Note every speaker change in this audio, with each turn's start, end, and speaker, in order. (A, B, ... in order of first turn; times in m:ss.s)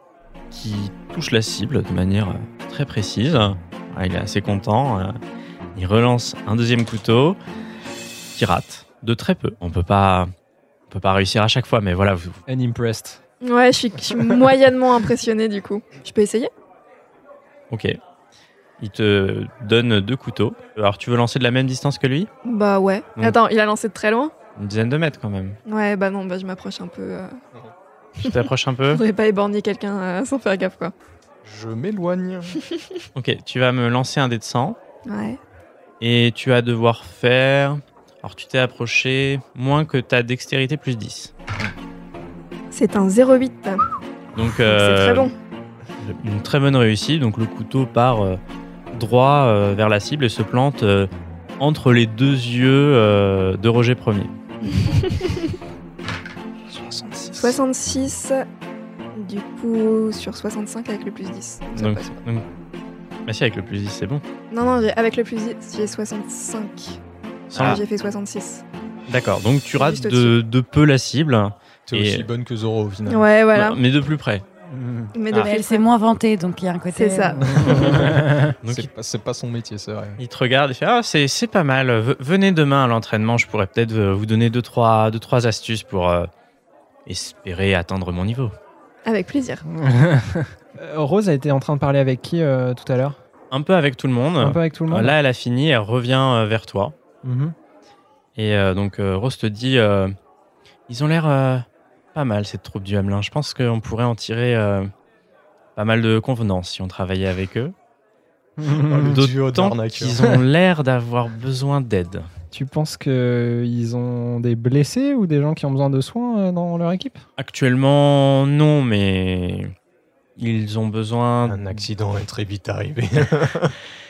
0:00.5-0:05.2 A
0:05.8-0:07.4 A
0:08.4-0:10.3 A
0:10.9-0:12.4 A
0:12.5-0:13.2 B
0:13.4-0:16.5 C
0:14.1-0:14.4 B
0:17.7-0:18.0 A
0:18.8-0:22.3 A
0:22.4-0:24.3 C
0:24.6-0:25.6 A
0:25.6-0:27.4 C
0:28.2-0:29.0 A
0:28.9-0:30.9 C
0:31.4-0:32.6 D
0:33.1-0:34.8 A
0:35.1-0:35.4 C
0:36.0-0:41.4 A
0:42.7-0:43.8 C
0:44.3-0:45.3 A
0:44.6-0:45.3 C
0:46.0-0:48.4 A
0:48.9-0:54.3 A
0:54.6-0:55.6 C
0:56.8-0:57.3 A
0:57.4-0:58.4 C
0:59.1-1:02.1 C
1:01.8-1:02.4 A
1:03.3-1:04.2 A
1:04.5-1:07.0 C
1:07.5-1:07.8 A
1:07.5-1:08.6 C
1:09.1-1:12.3 A
1:09.8-1:10.4 C
1:11.9-1:13.3 D
1:13.1-1:13.8 C
1:13.5-1:14.4 A
1:14.7-1:15.1 B
1:15.1-1:15.9 C
1:15.3-1:17.4 E
1:17.0-1:18.0 C
1:17.5-1:18.5 B
1:17.6-1:18.0 A
1:18.6-1:18.9 A
1:18.6-1:20.2 D
1:20.2-1:26.3 A
1:27.1-1:28.5 A
1:29.1-1:29.6 C
1:29.7-1:33.2 B
1:33.5-1:37.0 A
1:34.4-1:35.1 B
1:37.2-1:37.6 B
1:38.4-1:40.1 A
1:40.9-1:44.9 A
1:45.8-1:47.7 A
1:48.6-1:49.1 B
1:48.8-1:50.3 D
1:48.9-1:52.3 A
1:52.5-1:57.2 B
1:57.4-1:59.7 A
2:00.4-2:01.8 A
2:01.4-2:03.8 D